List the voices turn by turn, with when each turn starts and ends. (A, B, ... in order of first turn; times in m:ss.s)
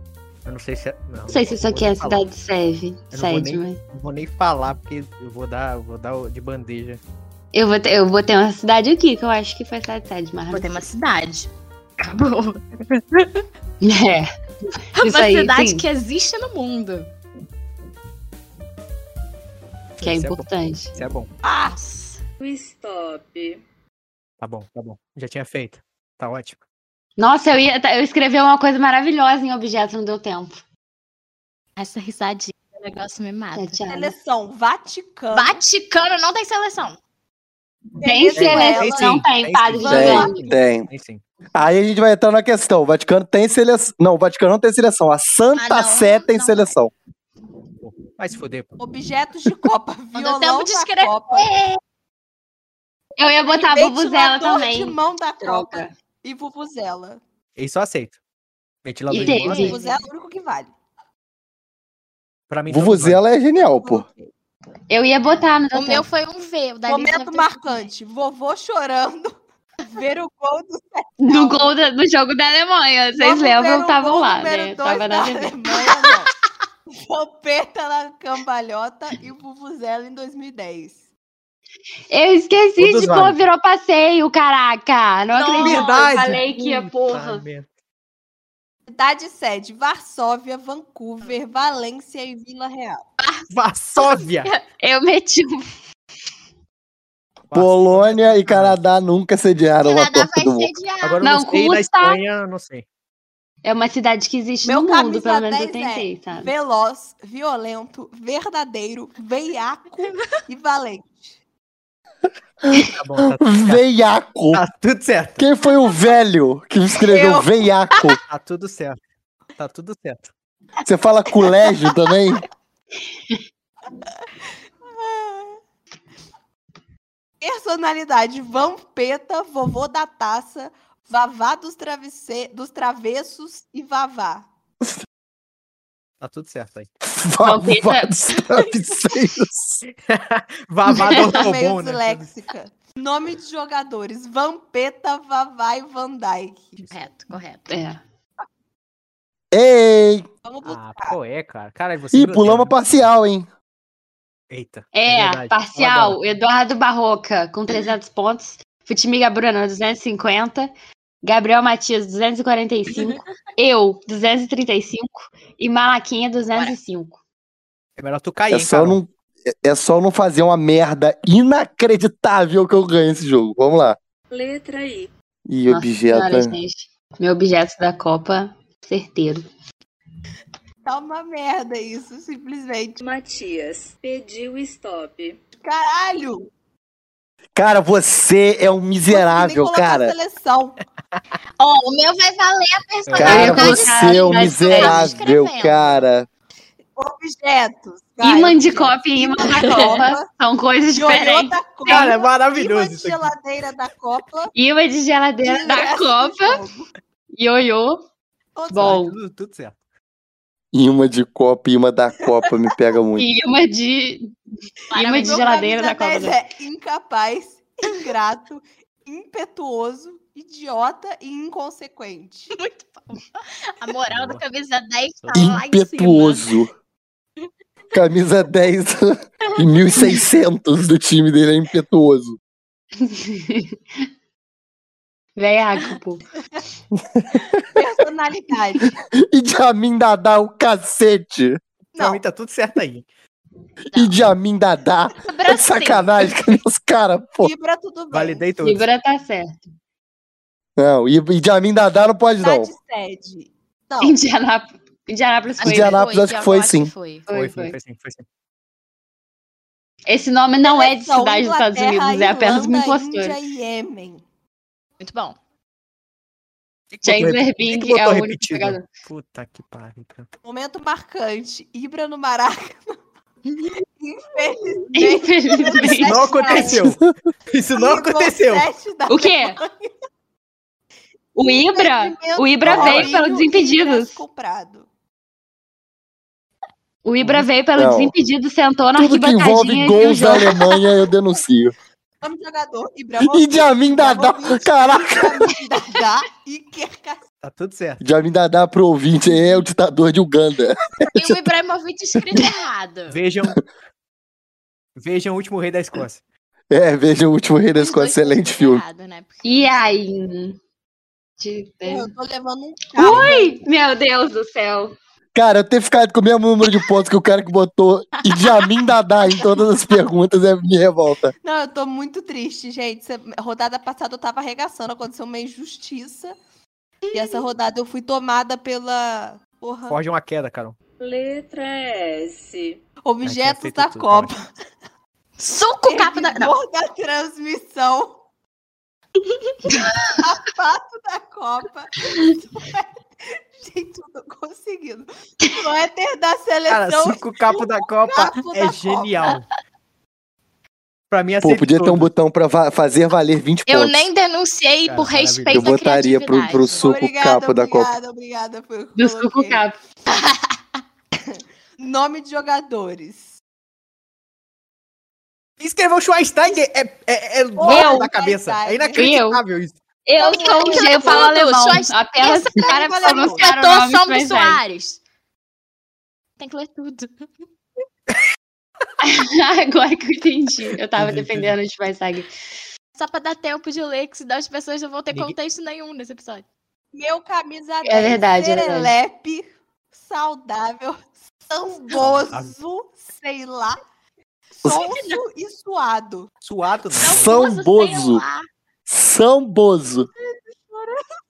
0:00.4-0:02.2 A
0:01.3-0:03.8 B
0:03.1-0:07.0 A
0:07.5-0:10.8 B
0:10.5-0:13.4 C
0:13.8-0:15.8 B
0:15.0-0:17.1 C
0:20.0-0:21.3 A
0:20.0-0:20.9 B
0:21.4-0:21.8 D
0:21.6-0:22.2 C
0:22.4-0:23.6 E
0:24.4-0:26.6 A
0:27.2-0:30.6 B
0:31.8-0:33.8 C
0:33.5-0:34.1 B
0:33.9-0:35.6 D
0:35.3-0:37.0 C
0:38.0-0:39.2 D
0:38.0-0:40.4 B
0:38.3-0:41.2 A
0:39.8-0:40.3 D
0:39.9-0:40.9 F
0:41.5-0:46.9 F
0:45.6-0:46.7 C
0:47.8-0:48.7 A
0:48.8-0:51.5 D
0:50.1-0:51.8 C
0:53.2-0:55.9 B
0:53.5-0:57.2 D
0:57.6-0:58.2 A
0:58.8-0:59.8 A
0:59.1-0:59.8 B
0:59.2-1:00.0 C
0:59.5-1:00.7 D
1:02.5-1:03.2 A
1:02.7-1:04.0 F
1:03.7-1:04.3 D
1:04.9-1:06.0 B
1:05.7-1:07.8 C
1:06.9-1:09.3 D
1:09.9-1:11.7 D
1:11.2-1:15.5 B
1:13.2-1:16.3 D
1:16.9-1:21.0 D
1:22.1-1:27.4 B
1:22.8-1:23.4 A
1:25.3-1:26.3 C
1:25.6-1:27.7 A
1:28.9-1:33.0 D
1:33.2-1:33.4 C
1:33.5-1:34.5 A
1:34.0-1:34.6 C
1:34.8-1:35.7 B
1:37.5-1:38.8 A
1:37.5-1:40.7 F
1:39.8-1:41.2 C
1:41.0-1:42.8 A
1:41.2-1:42.2 B
1:43.6-1:46.5 B
1:44.6-1:51.3 D
1:50.0-1:50.4 C
1:52.6-1:54.6 F
1:53.0-1:53.8 A
1:54.5-1:55.4 A
1:55.4-1:58.2 F
1:57.1-1:57.7 D
1:58.3-1:59.0 A
1:59.6-2:00.3 A
2:00.8-2:02.4 F
2:01.4-2:01.9 C
2:04.9-2:05.6 D
2:07.4-2:14.5 D
2:16.2-2:16.9 A
2:17.0-2:19.8 F
2:17.4-2:18.1 B
2:19.8-2:22.3 A
2:20.9-2:26.8 D
2:26.8-2:27.7 C
2:27.7-2:28.0 B
2:29.5-2:30.2 F
2:30.4-2:31.2 D
2:30.6-2:33.1 A
2:32.1-2:33.5 F
2:34.5-2:36.2 A
2:34.9-2:40.7 B
2:41.2-2:47.2 B
2:42.9-2:43.2 C
2:48.0-2:49.0 A
2:48.5-2:54.0 F
2:54.3-2:55.1 E
2:55.5-2:56.6 F
2:55.7-2:59.4 B
3:00.8-3:03.0 D
3:03.0-3:05.4 E
3:05.6-3:06.5 D
3:07.6-3:10.1 F
3:09.1-3:10.8 D
3:11.6-3:16.0 C
3:13.1-3:13.8 A
3:13.2-3:16.3 F
3:13.2-3:15.1 B
3:17.0-3:20.3 D
3:18.2-3:22.1 B
3:19.6-3:20.0 C
3:20.9-3:24.5 D
3:21.8-3:23.3 A
3:24.5-3:26.6 B
3:25.4-3:26.9 D
3:27.3-3:28.0 B
3:28.5-3:29.0 D
3:28.7-3:29.2 B
3:28.8-3:29.8 A
3:30.7-3:33.2 F
3:33.2-3:34.3 B
3:34.9-3:35.7 C
3:34.9-3:36.4 B
3:35.0-3:42.5 D
3:42.5-3:46.6 C
3:44.1-3:44.4 A
3:45.2-3:45.6 A
3:45.3-3:46.7 F
3:47.9-3:52.4 F
3:49.4-3:50.2 C
3:53.0-3:53.8 B
3:55.4-3:56.2 B
3:57.0-3:57.6 F
3:57.7-3:59.0 D
3:59.2-4:01.6 F
4:01.9-4:02.2 D
4:02.0-4:03.0 A
4:03.9-4:07.5 F
4:03.9-4:04.2 C
4:05.2-4:06.5 C
4:07.4-4:08.4 D
4:08.1-4:08.8 A
4:08.6-4:09.6 B
4:10.8-4:12.7 F
4:12.4-4:14.2 D
4:14.0-4:16.0 B
4:15.6-4:17.3 C
4:15.6-4:16.9 F
4:17.3-4:17.8 B
4:17.3-4:18.2 A
4:20.1-4:23.4 B
4:20.6-4:24.2 D
4:25.0-4:25.4 C
4:26.9-4:30.3 A
4:27.0-4:28.8 B
4:30.4-4:32.9 D
4:33.5-4:33.8 C
4:34.0-4:36.8 D
4:34.9-4:36.6 B
4:35.8-4:37.0 A
4:37.5-4:38.7 A
4:37.7-4:39.9 D
4:39.1-4:39.6 B
4:41.3-4:44.2 B
4:41.4-4:44.9 D
4:42.7-4:43.0 A
4:47.0-4:50.6 B
4:47.8-4:48.1 F
4:49.0-4:51.7 F
4:52.2-4:57.2 D
4:53.2-4:55.5 F
4:57.4-4:58.0 A
4:58.0-5:01.4 F
5:01.0-5:03.2 C
5:02.2-5:02.4 F
5:03.1-5:03.6 A
5:05.0-5:06.2 A
5:06.7-5:08.8 F
5:07.7-5:09.9 C
5:09.4-5:10.6 B
5:11.4-5:12.1 B
5:11.8-5:13.5 D
5:12.9-5:14.9 B
5:15.3-5:21.3 F
5:18.2-5:19.6 C
5:21.4-5:26.4 D
5:27.1-5:27.4 C
5:27.1-5:30.0 D
5:29.9-5:30.8 A
5:31.0-5:32.8 E
5:33.0-5:34.5 D
5:33.2-5:34.3 A
5:35.4-5:36.6 C
5:35.8-5:38.2 D
5:39.8-5:49.4 D
5:46.7-5:49.5 A
5:51.1-5:52.1 A
5:51.4-5:54.0 F
5:53.7-5:56.9 C
5:54.9-5:55.7 A
5:55.5-5:57.9 F
5:56.8-5:59.6 D
5:59.0-5:59.8 B
6:00.1-6:00.5 C
6:01.3-6:03.3 D
6:05.6-6:09.7 A
6:07.6-6:09.2 D
6:07.6-6:08.1 B
6:08.9-6:09.4 B
6:10.0-6:14.6 B
6:10.2-6:11.2 D
6:10.2-6:15.0 C
6:12.5-6:13.5 D
6:16.4-6:17.2 C
6:19.0-6:22.3 B
6:21.0-6:21.6 A
6:22.9-6:26.4 C
6:26.9-6:33.8 D
6:27.8-6:28.9 B
6:32.0-6:32.5 A
6:34.5-6:36.3 D
6:34.6-6:35.2 C
6:36.4-6:37.4 A
6:37.0-6:38.2 F
6:37.0-6:38.4 C
6:38.9-6:40.1 F
6:40.2-6:41.0 D